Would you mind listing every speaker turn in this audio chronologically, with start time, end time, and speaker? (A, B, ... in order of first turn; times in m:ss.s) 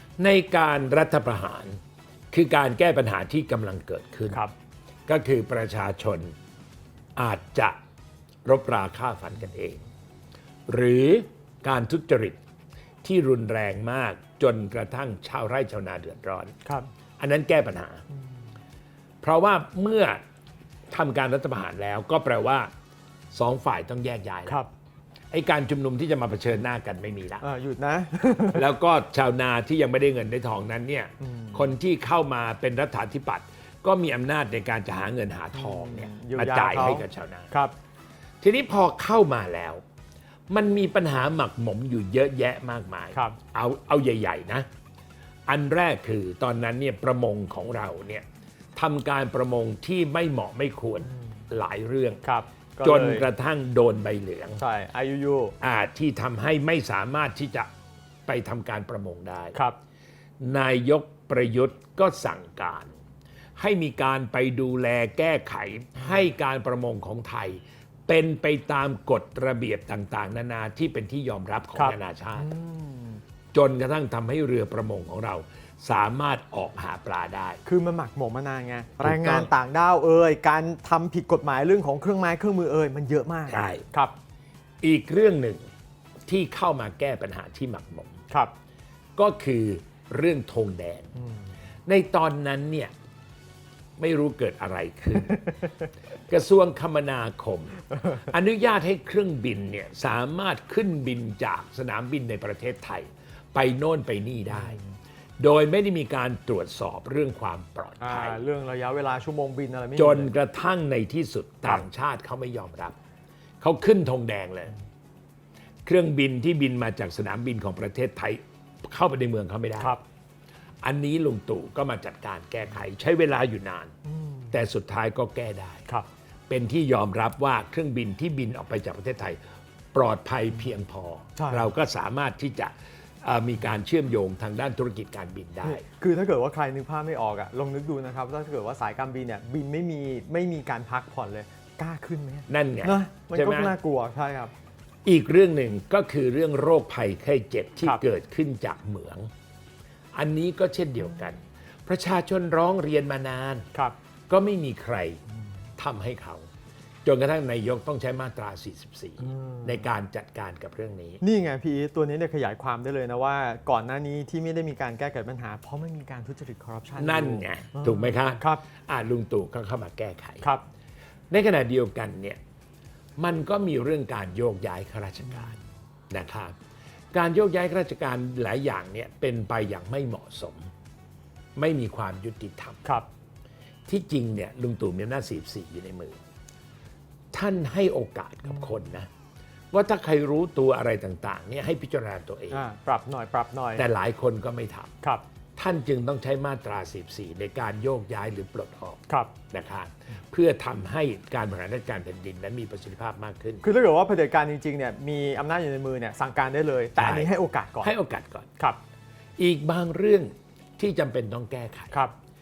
0:00.2-0:01.8 A
0:02.3-0:04.4 A
0:05.1-0:06.3 A
0:07.2-0:07.8 A
0:08.4-0:09.8 A
0:10.7-0:12.4 A
0:13.0-0:16.6 A
0:17.2-0:18.0 A
0:19.2-0:20.2 A
0:20.9-0:22.7 A
0:23.3-0:24.6 A
0:25.3-0:27.4 A
0:27.4-0:28.7 B
0:28.5-0:37.5 A
0:31.2-0:31.7 B
0:35.5-0:37.7 B
0:38.4-0:39.8 A
0:40.5-0:44.7 A
0:45.5-0:52.2 A
0:52.2-0:53.3 B
0:52.8-0:54.6 A
0:54.6-0:55.6 B
0:55.6-0:57.7 A
0:58.3-0:59.6 A
1:00.4-1:03.0 A
1:03.6-1:12.5 A
1:11.8-1:13.2 B
1:13.5-1:17.6 A
1:17.6-1:24.2 B
1:19.0-1:19.5 A
1:23.5-1:23.9 A
1:24.8-1:25.6 A
1:26.3-1:28.2 A
1:29.2-1:31.1 A
1:31.9-1:32.9 A
1:34.0-1:35.5 A
1:36.3-1:44.8 A
1:45.4-1:48.4 A
1:48.0-1:50.3 B
1:50.0-1:53.0 A
1:53.6-1:54.8 A
1:55.8-2:00.0 A
2:00.8-2:03.9 A
2:04.1-2:04.5 B
2:04.5-2:05.9 A
2:06.5-2:09.4 A
2:09.9-2:15.8 A
2:11.4-2:11.7 B
2:15.6-2:24.5 B
2:22.5-2:23.7 A
2:25.0-2:29.3 A
2:30.1-2:33.7 A
2:34.3-2:35.2 A
2:35.8-2:36.5 A
2:37.0-2:41.2 A
2:39.2-2:39.8 B
2:41.2-2:48.6 B
2:47.0-2:50.5 A
2:51.3-2:52.4 A
2:53.2-2:55.6 A
2:56.1-2:56.5 A
2:57.1-3:00.7 A
3:01.6-3:02.8 A
3:03.9-3:06.2 A
3:07.3-3:09.1 A
3:09.7-3:12.6 A
3:12.5-3:13.8 B
3:13.8-3:14.9 A
3:15.6-3:23.6 A
3:19.1-3:19.3 B
3:23.6-3:27.9 B
3:27.0-3:28.5 A
3:29.4-3:32.1 A